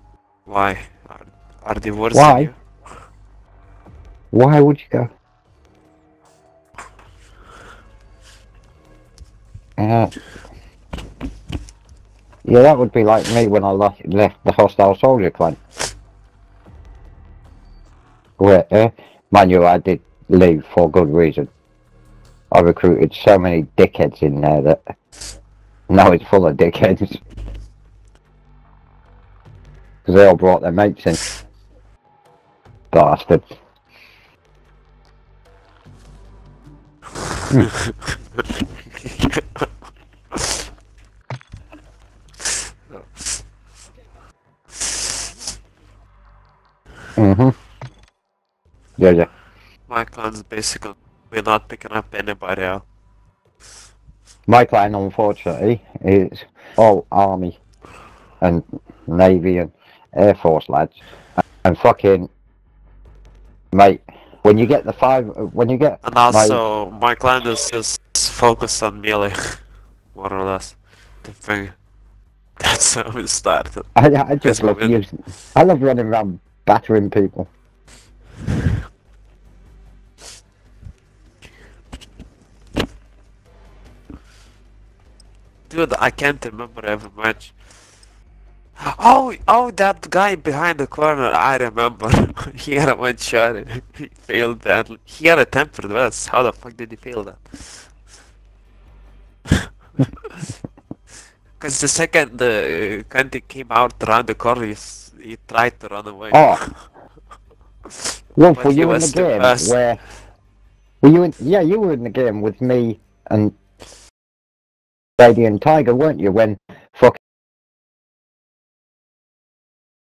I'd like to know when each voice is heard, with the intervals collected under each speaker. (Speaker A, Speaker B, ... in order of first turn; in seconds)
Speaker A: 0.5-2.6, 39.0-39.6, 49.9-52.8, 66.0-69.6, 70.1-71.7, 72.6-73.9, 74.4-75.0, 85.7-87.5, 88.8-97.4, 101.6-106.7, 108.0-109.8
Speaker B: 2.1-2.5, 4.3-5.1, 9.8-10.1, 12.4-15.6, 18.4-21.5, 22.5-24.8, 25.9-27.2, 30.0-31.2, 32.9-33.4, 47.2-47.5, 49.0-49.3, 54.5-57.6, 58.4-61.0, 61.6-62.3, 63.7-66.6, 74.0-77.5, 106.3-106.6, 108.3-110.0, 111.0-113.5, 115.2-117.2